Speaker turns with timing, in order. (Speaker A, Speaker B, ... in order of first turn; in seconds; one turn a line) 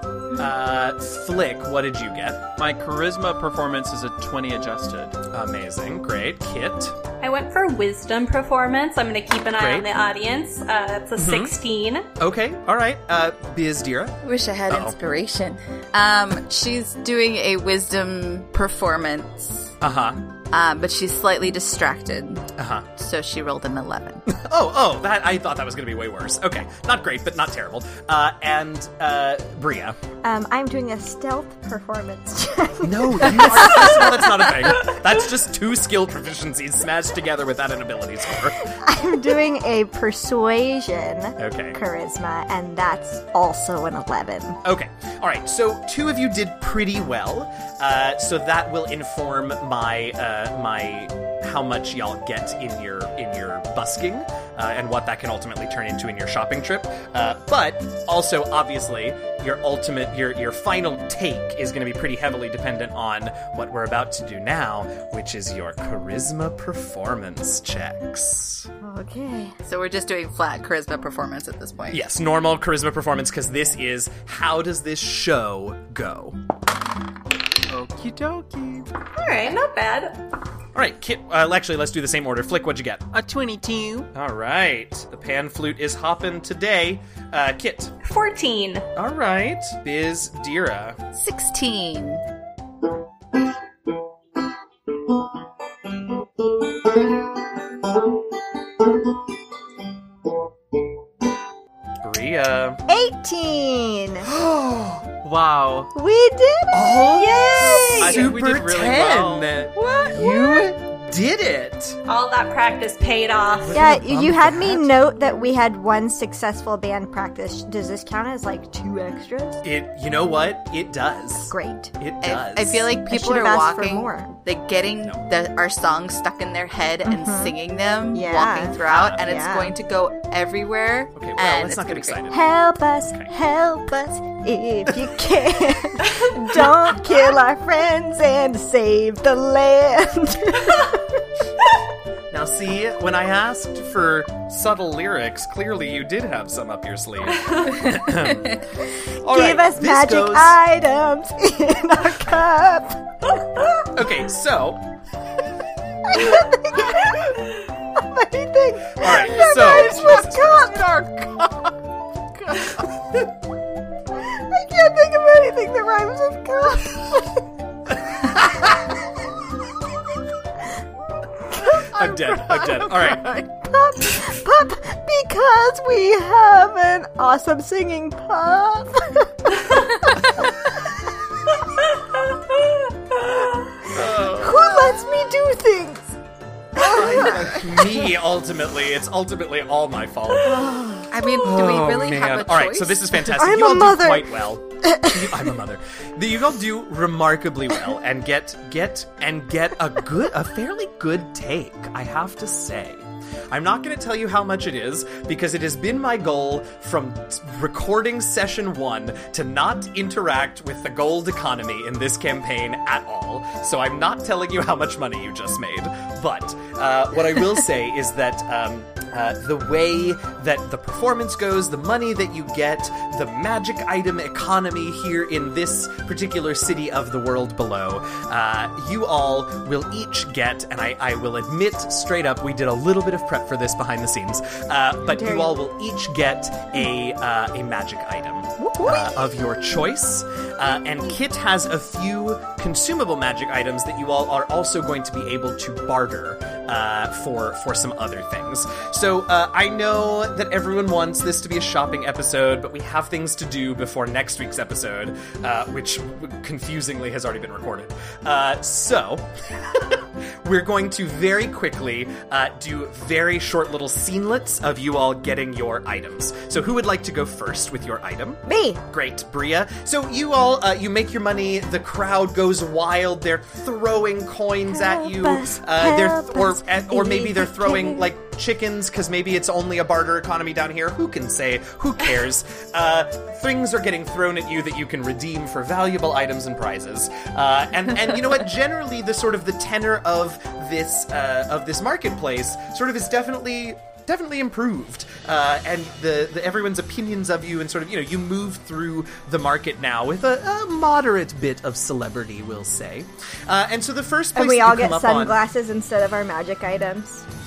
Speaker A: 0.3-2.5
Speaker B: 2.6-5.2
Speaker A: 5.3-7.0
Speaker C: 7.2-12.1
Speaker A: 9.6-9.9
Speaker A: 11.2-11.5
Speaker A: 12.2-14.2
Speaker D: 14.2-19.7
Speaker A: 14.7-15.0
Speaker A: 19.8-20.2
Speaker D: 20.5-24.2
Speaker A: 22.6-22.9
Speaker A: 24.3-30.0
Speaker E: 30.2-34.8
Speaker A: 32.8-38.7
Speaker E: 38.6-44.6
Speaker A: 41.4-41.8
Speaker A: 44.6-68.7
Speaker E: 68.8-69.5
Speaker D: 69.6-72.1
Speaker A: 71.9-76.4
Speaker B: 77.7-78.9
Speaker C: 79.1-80.2
Speaker A: 80.7-83.1
Speaker B: 83.1-84.1
Speaker A: 84.1-87.9
Speaker C: 88.0-88.9
Speaker A: 89.0-91.0
Speaker D: 91.1-92.2
Speaker A: 102.0-102.8
Speaker E: 102.9-104.3
Speaker A: 104.3-105.2
Speaker B: 105.2-105.9
Speaker E: 105.9-108.2
Speaker A: 106.7-112.0
Speaker C: 107.2-108.3
Speaker B: 108.0-109.6
Speaker E: 109.8-110.7
Speaker C: 112.0-113.8
Speaker A: 113.6-114.9
Speaker E: 113.7-119.6
Speaker A: 119.6-122.9
Speaker E: 121.4-121.9
Speaker D: 122.2-132.2
Speaker E: 123.1-124.3
Speaker E: 127.0-127.5
Speaker E: 128.1-129.7
Speaker A: 128.8-129.2
Speaker A: 131.1-132.5
Speaker E: 132.3-141.2
Speaker A: 133.1-133.3
Speaker A: 142.3-148.6
Speaker E: 149.0-153.3
Speaker A: 149.2-150.6
Speaker A: 153.9-154.8
Speaker E: 156.0-160.9
Speaker A: 159.0-160.8
Speaker B: 159.1-161.7
Speaker B: 162.3-163.2
Speaker E: 164.1-167.4
Speaker E: 168.1-169.0
Speaker A: 168.1-168.7
Speaker E: 171.2-171.8
Speaker B: 171.6-173.5
Speaker A: 171.9-173.3
Speaker E: 173.6-181.2
Speaker A: 183.9-185.0
Speaker E: 183.9-186.2
Speaker E: 186.7-188.1
Speaker A: 186.8-190.7
Speaker E: 190.4-191.1
Speaker D: 191.1-193.2
Speaker A: 191.4-305.4
Speaker E: 193.3-195.5
Speaker E: 235.1-235.6
Speaker E: 238.6-239.1
Speaker E: 268.5-268.8
Speaker E: 274.7-278.1
Speaker E: 304.3-307.2